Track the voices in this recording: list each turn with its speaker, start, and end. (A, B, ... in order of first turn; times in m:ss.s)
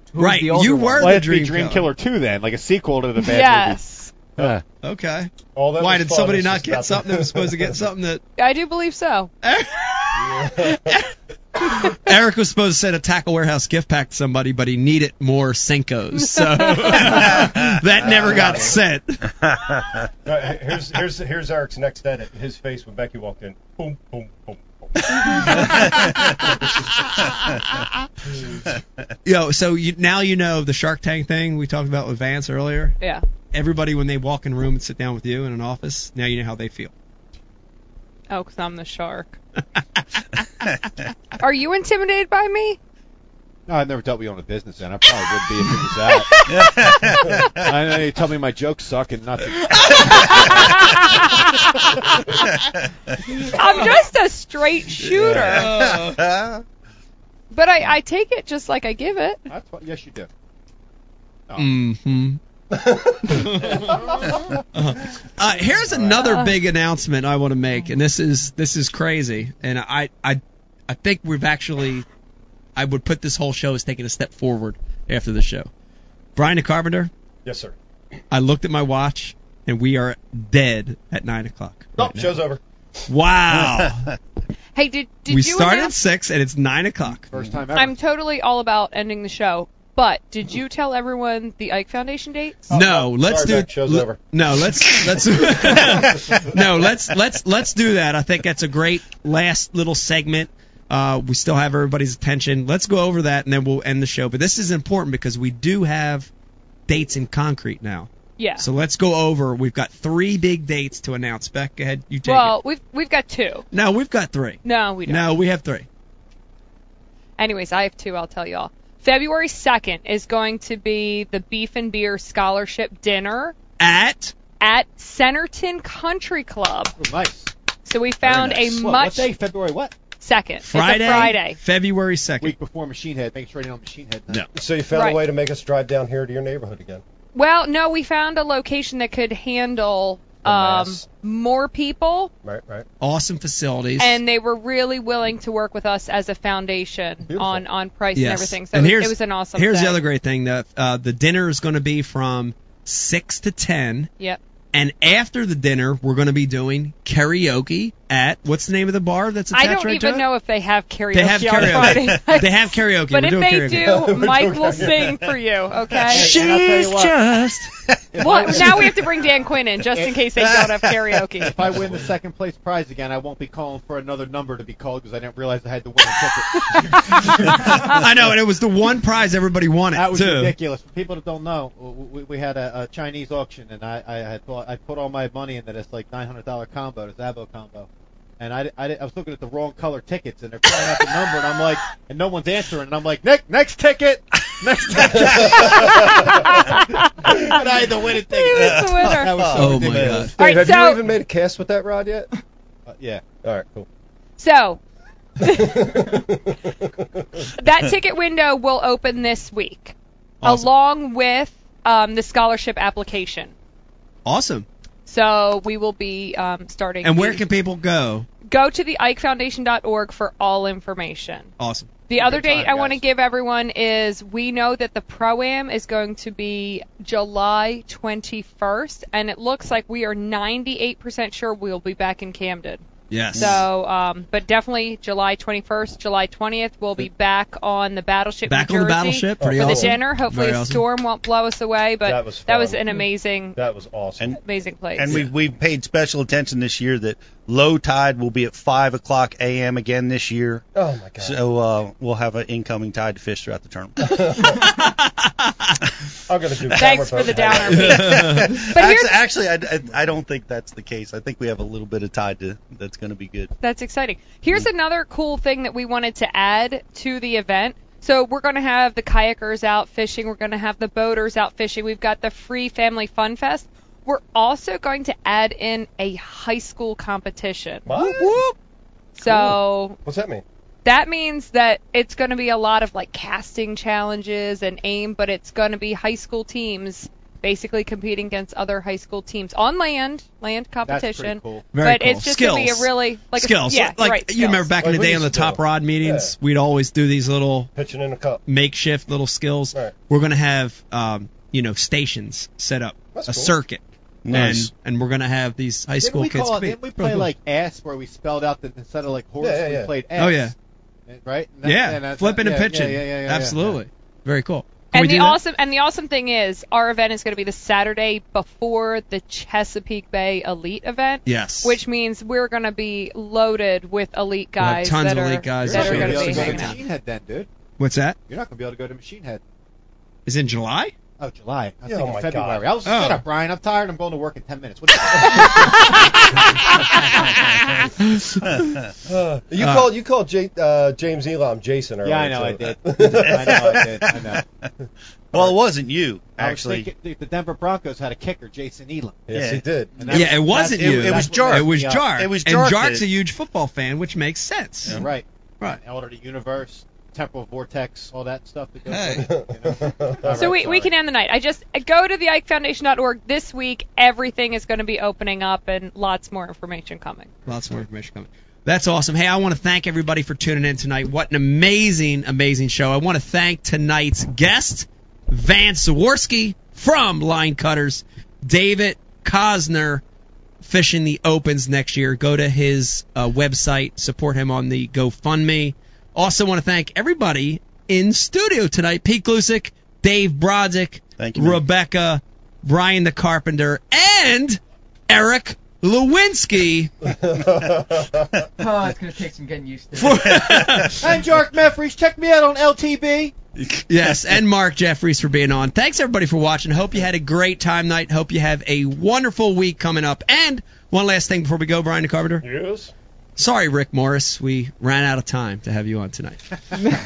0:00.1-0:01.2 A
0:00.2-0:01.9 B
0:01.0-0:03.8 C
0:03.2-0:04.1 D
0:04.4-0:04.6 C
0:04.8-0:08.2 B
0:05.5-0:07.7 E
0:08.4-0:09.3 D
0:09.4-0:19.4 B
0:10.1-0:10.9 E
0:16.1-0:17.1 D
0:17.0-0:17.7 F
0:17.9-0:18.8 E
0:19.4-0:19.9 F
0:20.2-0:27.0 E
0:25.4-0:25.7 B
0:25.7-0:26.3 F
0:27.1-0:27.6 B
0:28.3-0:28.6 E
0:29.2-0:33.0 B
0:33.0-0:33.2 D
0:33.5-0:36.9 B
0:38.3-0:39.4 D
0:41.4-0:42.8 D
0:43.7-0:46.8 C
0:46.4-0:47.6 F
0:47.5-0:50.9 C
0:50.3-0:51.4 D
0:52.4-0:52.8 F
0:53.5-0:55.7 D
0:55.1-0:56.6 F
0:55.2-0:55.6 E
0:55.6-0:56.2 B
0:57.5-0:59.4 D
0:59.5-1:00.3 C
1:01.6-1:02.4 B
1:02.7-1:04.4 E
1:03.3-1:04.0 B
1:04.7-1:12.0 B
1:06.1-1:06.6 D
1:12.8-1:15.7 B
1:16.4-1:17.1 B
1:17.4-1:17.7 E
1:18.3-1:22.3 B
1:22.0-1:22.6 E
1:23.1-1:24.1 B
1:23.6-1:24.1 F
1:24.7-1:25.9 D
1:25.3-1:27.3 B
1:27.3-1:28.0 C
1:27.3-1:27.6 F
1:27.7-1:32.7 D
1:32.7-1:46.3 B
1:32.7-1:34.2 E
1:35.5-1:36.4 E
1:46.9-1:52.6 B
1:48.4-1:48.6 D
1:52.3-1:53.7 D
1:53.7-1:55.9 B
1:54.6-1:55.3 D
1:57.4-2:03.6 D
2:03.8-2:04.3 B
2:04.6-2:06.9 D
2:07.0-2:07.5 C
2:07.9-2:09.3 D
2:08.2-2:09.9 C
2:10.2-2:11.6 D
2:10.6-2:12.6 B
2:12.4-2:14.4 C
2:14.6-2:17.0 E
2:14.9-2:15.2 D
2:17.3-2:22.3 D
2:20.4-2:21.0 E
2:22.4-2:22.8 E
2:23.0-2:24.2 B
2:24.0-2:30.0 D
2:27.3-2:27.6 E
2:28.1-2:34.1 B
2:34.7-2:40.3 B
2:39.5-2:46.3 D
2:41.1-2:44.0 B
2:41.6-2:42.3 F
2:43.7-2:45.3 E
2:46.1-2:47.2 C
2:46.1-2:47.7 B
2:47.9-2:48.2 F
2:48.2-2:51.6 D
2:48.2-2:48.8 C
2:48.2-2:48.9 E
2:50.4-2:50.7 F
2:51.4-2:57.4 C
2:56.9-3:00.6 B
2:57.3-2:57.6 E
2:59.9-3:20.6 C
3:15.0-3:15.5 F
3:15.1-3:16.3 E
3:16.4-3:19.4 D
3:18.5-3:20.3 F
3:19.5-3:20.4 B
3:20.4-3:21.1 D
3:20.4-3:22.3 E
3:22.9-3:23.2 C
3:23.4-3:23.9 E
3:24.4-3:24.8 D
3:25.4-3:26.0 D
3:25.4-3:27.5 E
3:27.6-3:33.6 D
3:30.4-3:30.7 B
3:34.3-3:34.7 B
3:35.0-3:37.4 D
3:37.0-3:38.3 B
3:38.4-3:41.5 D
3:41.6-3:41.9 B
3:42.1-4:03.6 D
3:42.1-3:43.0 E
3:53.1-3:53.6 B
3:53.3-3:53.7 E
3:58.5-4:00.8 B
3:59.4-4:00.0 E
4:02.0-4:04.4 E
4:04.3-4:05.1 D
4:05.0-4:10.7 F
4:05.1-4:05.3 B
4:10.7-4:11.4 E
4:11.2-4:14.1 F
4:14.0-4:14.7 E
4:14.4-4:15.8 B
4:16.3-4:18.2 E
4:16.7-4:19.3 D
4:17.7-4:18.5 B
4:18.0-4:23.5 F
4:23.6-4:38.1 D
4:37.9-4:38.4 E
4:37.9-4:38.6 B
4:39.1-4:40.0 D
4:39.2-4:40.4 E
4:40.8-4:54.7 D
4:50.8-4:51.7 C
4:51.7-4:57.7 B
4:54.8-4:56.3 E
4:57.8-4:58.4 E
4:58.4-5:07.3 B
5:03.1-5:03.6 E
5:04.2-5:04.7 F
5:06.0-5:10.5 C
5:09.4-5:09.9 E
5:10.2-5:10.5 B
5:11.1-5:13.8 C
5:11.6-5:15.4 B
5:14.9-5:26.8 D
5:21.3-5:21.8 B
5:24.6-5:26.8 B
5:25.6-5:27.5 C
5:27.8-5:28.2 B
5:28.3-5:29.4 C
5:30.3-5:30.9 B
5:31.2-5:37.9 C
5:31.9-5:32.7 E
5:32.8-5:33.2 B
5:35.1-5:35.9 E
5:36.4-5:38.7 B
5:38.4-5:38.9 F
5:39.0-5:43.9 E
5:39.6-5:39.9 B
5:42.0-5:44.4 C
5:43.1-5:44.7 F
5:45.3-5:46.9 F
5:46.4-5:49.2 C
5:49.3-5:50.0 E
5:49.3-5:53.0 F
5:49.9-5:52.1 C
5:50.1-5:55.0 B
5:54.8-5:55.1 F
5:54.9-6:00.9 C
5:58.9-5:59.3 B
5:59.1-6:00.6 E
6:00.3-6:07.4 D
6:07.4-6:20.0 B
6:20.6-6:36.9 B
6:31.2-6:31.6 F
6:37.1-6:38.3 E
6:38.6-6:40.4 A
6:40.0-6:41.0 B
6:40.2-6:40.9 F
6:40.8-6:43.3 C
6:43.9-6:52.4 B
6:52.4-6:52.9 E
6:53.4-6:56.8 B